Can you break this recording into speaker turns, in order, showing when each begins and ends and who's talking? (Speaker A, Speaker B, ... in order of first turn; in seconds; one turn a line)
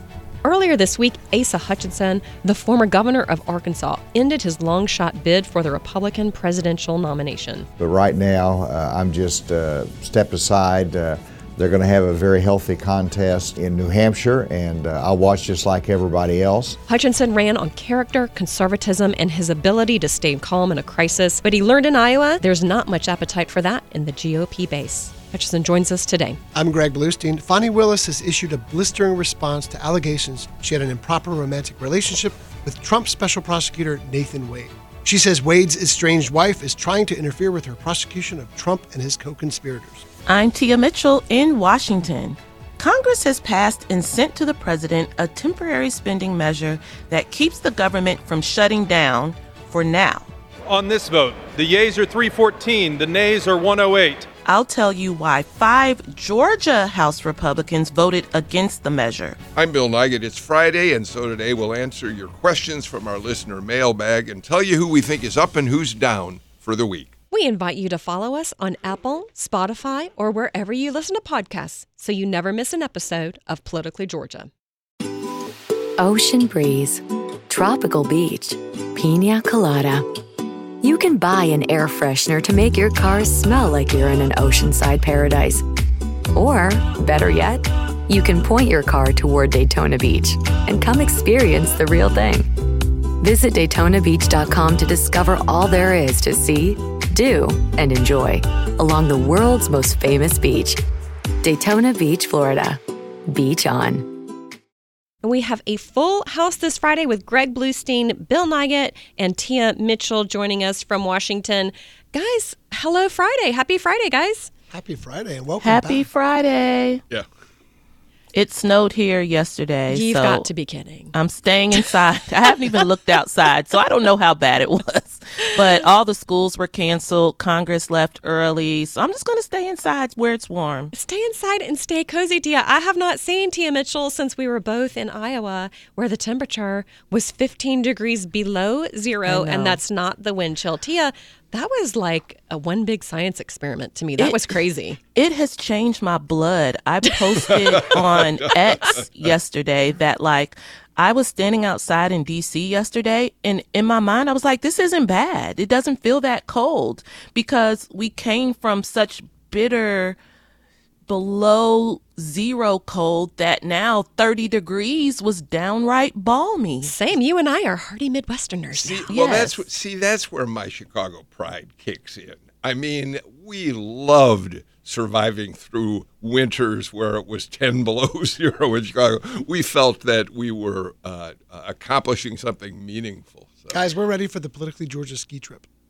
Speaker A: 0.4-7.7
Speaker B: 7.8-16.8
Speaker A: 16.9-26.4
Speaker C: 26.5-40.0
Speaker D: 40.3-50.3
Speaker E: 50.7-54.3
Speaker D: 54.5-59.4
Speaker F: 59.5-67.1
Speaker A: 67.3-74.5
Speaker G: 76.0-80.1
Speaker G: 80.8-85.6
Speaker G: 86.3-92.5
Speaker G: 93.2-100.8
Speaker G: 101.4-104.1
Speaker A: 105.2-114.5
Speaker C: 114.7-116.1
Speaker D: 115.6-117.0
Speaker D: 118.3-120.5
Speaker A: 119.9-121.2
Speaker D: 121.1-130.9
Speaker A: 130.9-145.0
Speaker D: 139.3-139.8
Speaker D: 145.2-160.2
Speaker F: 147.6-148.2
Speaker F: 148.8-149.0
Speaker D: 161.1-166.9
Speaker A: 166.8-169.6
Speaker F: 168.8-183.7
Speaker D: 169.1-169.4
Speaker C: 183.7-185.7